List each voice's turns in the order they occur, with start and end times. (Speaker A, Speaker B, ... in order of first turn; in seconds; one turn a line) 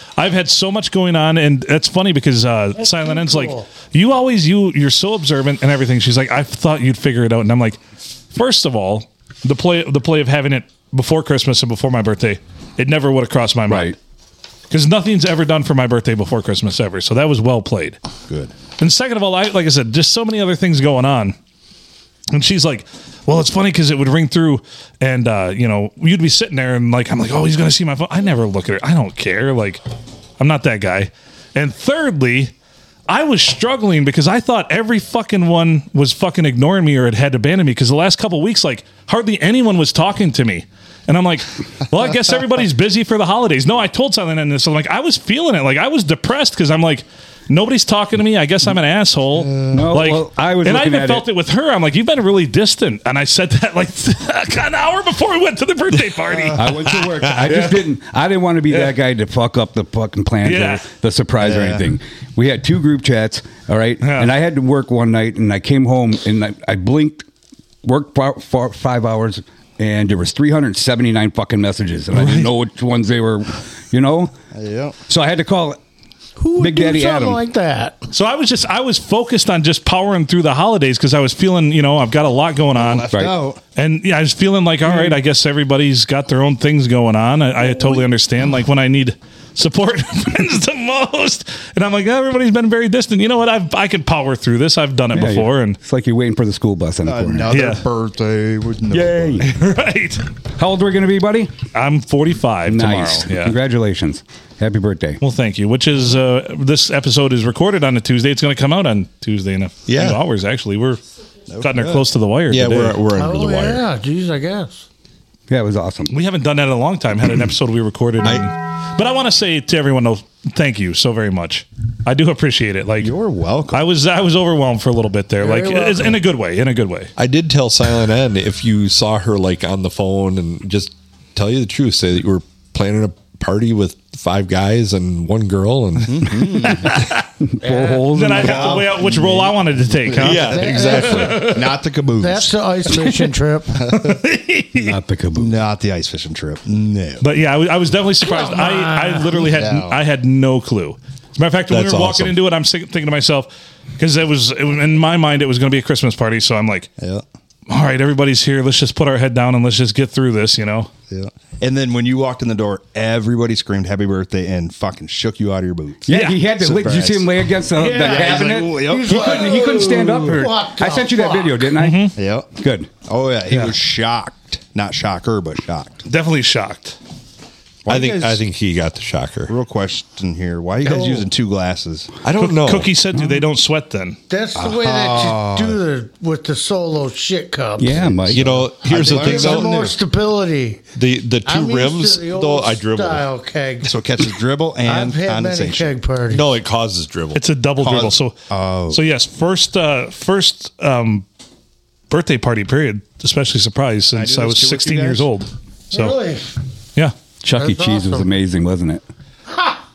Speaker A: 0.2-7.8
Speaker B: 2.8-3.7
Speaker A: 8.3-14.0
Speaker C: 13.7-13.9
Speaker A: 14.7-18.0
Speaker D: 18.3-18.5
Speaker A: 18.8-21.4
Speaker A: 22.3-29.8
Speaker A: 30.4-32.5
Speaker A: 33.1-56.7
Speaker D: 49.4-49.9
Speaker C: 49.7-51.3
Speaker D: 56.3-56.9
Speaker C: 56.6-67.3
Speaker A: 57.5-57.8
Speaker A: 60.4-60.8
Speaker D: 61.4-61.9
Speaker A: 64.0-64.3
Speaker C: 67.8-74.3
Speaker D: 74.5-75.0
Speaker C: 75.1-75.8
Speaker B: 76.4-78.0
Speaker C: 76.6-77.4
Speaker A: 78.1-83.1
Speaker D: 82.8-83.6
Speaker C: 83.1-83.4
Speaker A: 83.8-95.8
Speaker C: 95.1-97.5
Speaker D: 97.1-99.5
Speaker A: 97.5-97.8
Speaker C: 98.9-99.5
Speaker A: 99.4-100.2
Speaker C: 100.6-101.5
Speaker A: 101.7-103.5
Speaker C: 102.7-105.2
Speaker A: 105.2-111.0
Speaker E: 109.9-110.2
Speaker D: 111.5-112.0
Speaker A: 111.6-113.0
Speaker E: 112.5-113.8
Speaker B: 113.2-114.9
Speaker C: 115.5-116.1
Speaker A: 116.1-123.1
Speaker D: 123.0-123.9
Speaker A: 123.7-127.1
Speaker B: 125.4-126.2
Speaker E: 127.2-136.4
Speaker D: 136.0-137.1
Speaker A: 136.8-137.2
Speaker C: 137.4-139.0
Speaker B: 137.6-138.1
Speaker A: 138.0-141.7
Speaker D: 138.3-142.5
Speaker E: 140.2-141.5
Speaker B: 140.3-141.6
Speaker B: 142.2-143.8
Speaker D: 143.8-144.2
Speaker A: 143.9-145.0
Speaker C: 144.8-145.5
Speaker D: 145.4-147.2
Speaker A: 147.2-156.9
Speaker B: 148.2-149.5
Speaker D: 149.5-149.9
Speaker E: 151.7-152.3
Speaker D: 157.0-157.2
Speaker A: 157.7-160.9
Speaker D: 161.1-167.3
Speaker C: 166.1-172.9
Speaker A: 166.1-166.4
Speaker B: 167.8-171.7
Speaker D: 167.8-169.5
Speaker A: 171.8-172.1
Speaker D: 172.1-172.5
Speaker D: 173.1-176.0
Speaker C: 173.5-173.8
Speaker A: 176.1-177.0
Speaker D: 177.9-178.4
Speaker E: 177.9-179.5
Speaker D: 179.5-182.2
Speaker E: 182.2-182.9
Speaker A: 182.4-184.2
Speaker B: 184.3-188.3
Speaker D: 184.6-185.8
Speaker C: 187.8-188.7
Speaker E: 188.3-189.8
Speaker D: 188.3-189.9
Speaker B: 188.9-190.8
Speaker E: 190.9-193.3
Speaker B: 191.4-193.9
Speaker D: 193.8-195.9
Speaker B: 194.8-196.5
Speaker E: 196.3-197.4
Speaker A: 197.3-198.4
Speaker D: 197.8-199.0
Speaker A: 198.9-201.3
Speaker A: 202.1-206.2
Speaker D: 204.1-205.3
Speaker B: 205.9-206.6
Speaker C: 207.4-209.0
Speaker B: 207.5-208.3